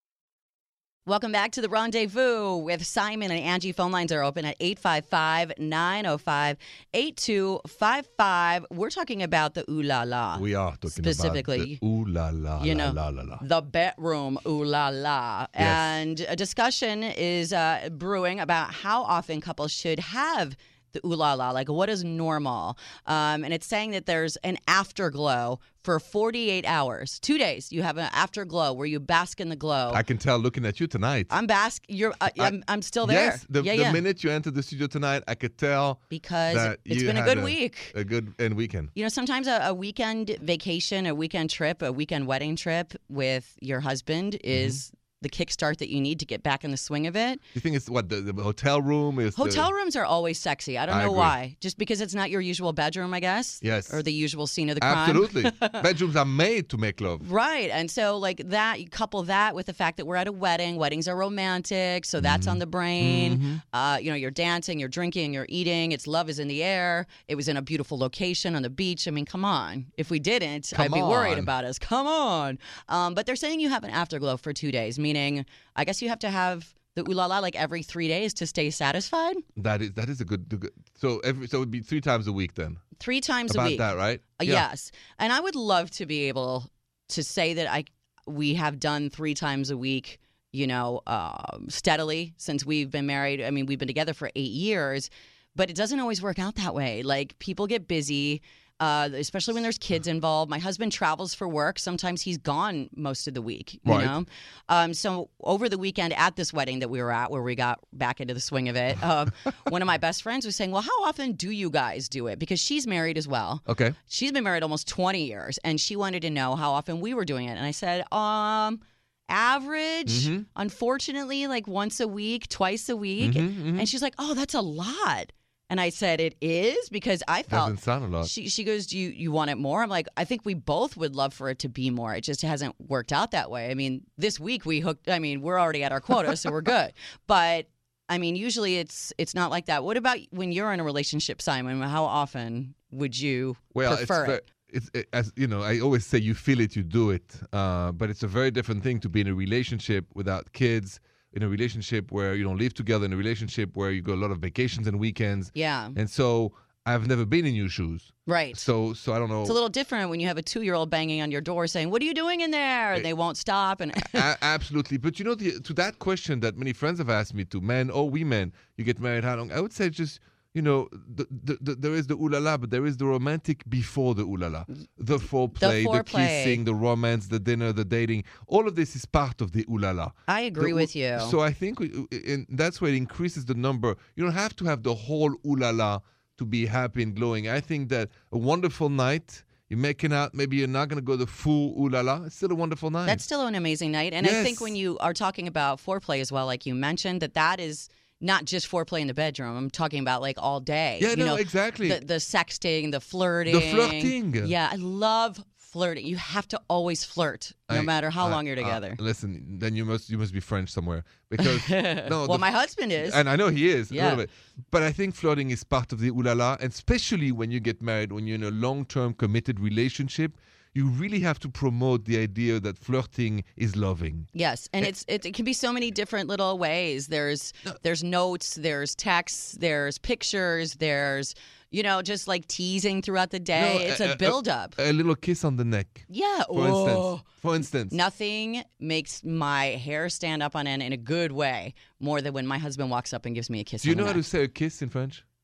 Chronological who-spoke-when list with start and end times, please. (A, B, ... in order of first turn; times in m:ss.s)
0:01.1-0:11.8 A
0:10.4-0:13.4 B
0:12.6-0:30.0 A
0:15.6-0:16.0 B
0:29.9-0:31.3 B
0:31.3-0:34.0 A
0:32.4-0:38.9 B
0:36.1-0:38.0 A
0:39.0-0:47.4 A
0:44.5-0:44.8 B
0:47.6-0:49.7 B
0:49.4-0:55.8 A
0:50.9-0:51.4 B
0:53.6-0:54.0 B
0:54.8-0:57.2 B
0:57.2-1:19.4 A
1:02.2-1:03.6 B
1:10.7-1:11.5 B
1:19.6-1:22.8 B
1:23.0-2:24.4 A
1:23.5-1:24.6 B
1:43.9-1:44.2 B
1:53.7-1:54.0 B
2:00.1-2:00.4 B
2:03.2-2:03.9 B
2:07.5-2:08.3 B
2:23.7-2:39.6 B
2:35.6-2:36.0 A
2:38.3-2:38.7 A
2:39.4-2:44.3 A
2:44.0-3:13.2 B
2:55.6-2:56.6 A
3:00.3-3:01.4 A
3:13.1-3:29.0 A
3:14.2-3:14.8 B
3:21.0-3:22.0 B
3:23.5-3:24.5 B
3:27.7-3:32.5 B
3:31.4-3:33.2 A
3:33.0-3:44.3 B
3:33.9-3:34.2 A
3:44.3-3:54.8 A
3:53.6-3:58.0 B
3:56.1-3:57.3 A
3:57.9-4:04.2 A
4:03.8-4:05.2 B